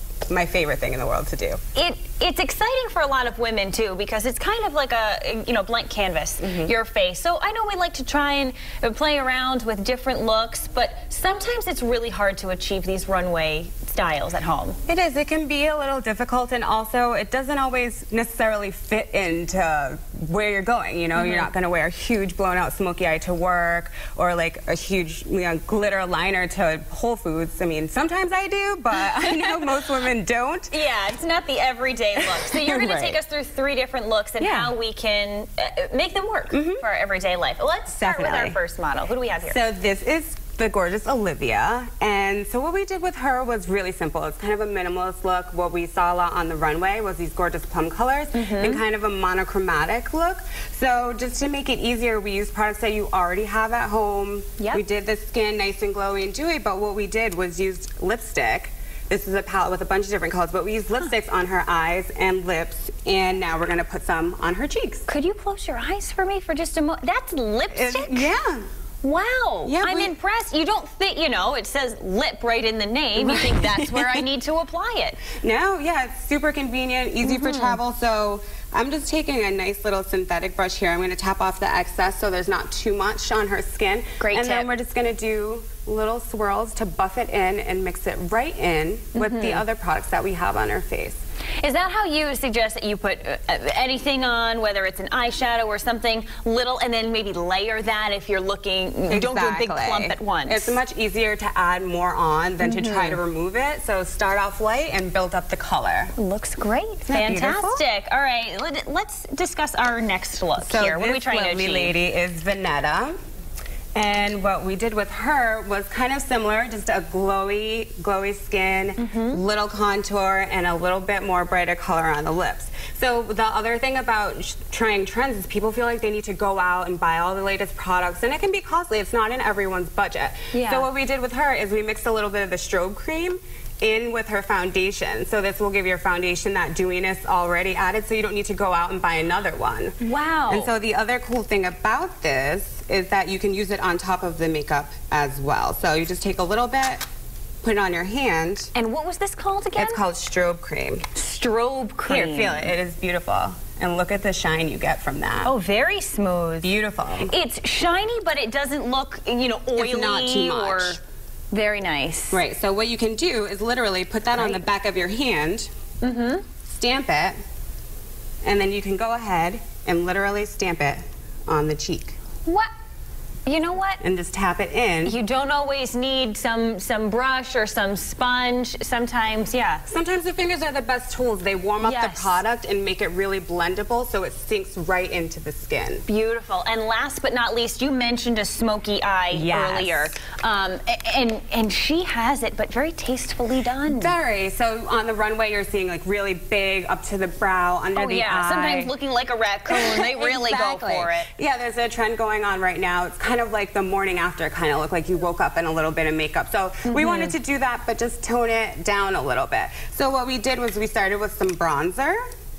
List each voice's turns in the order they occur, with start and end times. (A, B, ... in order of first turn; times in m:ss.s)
0:00.3-0:01.6 A
0:01.7-0:14.8 B
0:06.4-0:06.7 A
0:14.9-0:30.7 A
0:21.1-0:21.5 B
0:29.2-0:29.6 B
0:30.7-0:39.6 B
0:32.2-0:33.2 A
0:34.4-0:34.7 A
0:36.5-0:36.8 A
0:37.9-0:38.6 A
0:39.4-1:05.1 A
0:48.3-0:48.8 B
1:05.1-1:08.3 B
1:07.7-1:08.6 A
1:09.0-1:15.2 B
1:09.6-1:10.1 A
1:13.2-1:14.2 A
1:15.4-1:31.2 A
1:17.2-1:17.8 B
1:24.2-1:24.7 B
1:29.1-1:29.6 B
1:31.6-1:40.8 B
1:39.1-1:46.1 A
1:42.6-1:43.2 B
1:46.2-1:51.9 B
1:47.0-1:47.8 A
1:50.6-1:53.2 A
1:53.9-2:20.0 A
1:59.0-1:59.4 B
2:10.5-2:10.8 B
2:20.0-2:20.7 B
2:20.5-2:27.0 A
2:27.6-2:28.7 A
2:28.7-2:30.0 B
2:29.8-2:31.0 A
2:31.1-2:32.7 B
2:32.1-2:35.5 A
2:35.4-2:36.7 B
2:36.6-2:37.3 A
2:37.3-2:42.4 B
2:39.8-2:41.0 A
2:42.3-2:45.7 A
2:46.0-2:46.4 B
2:46.6-2:47.4 A
2:48.4-2:52.2 A
2:53.4-2:54.0 B
2:54.0-2:55.2 A
2:55.0-2:59.8 B
2:59.9-3:06.0 A
3:01.8-3:02.4 B
3:06.1-3:14.2 B
3:09.3-3:10.2 A
3:13.8-3:18.9 A
3:17.9-3:21.3 B
3:19.7-3:32.2 A
3:26.8-3:27.4 B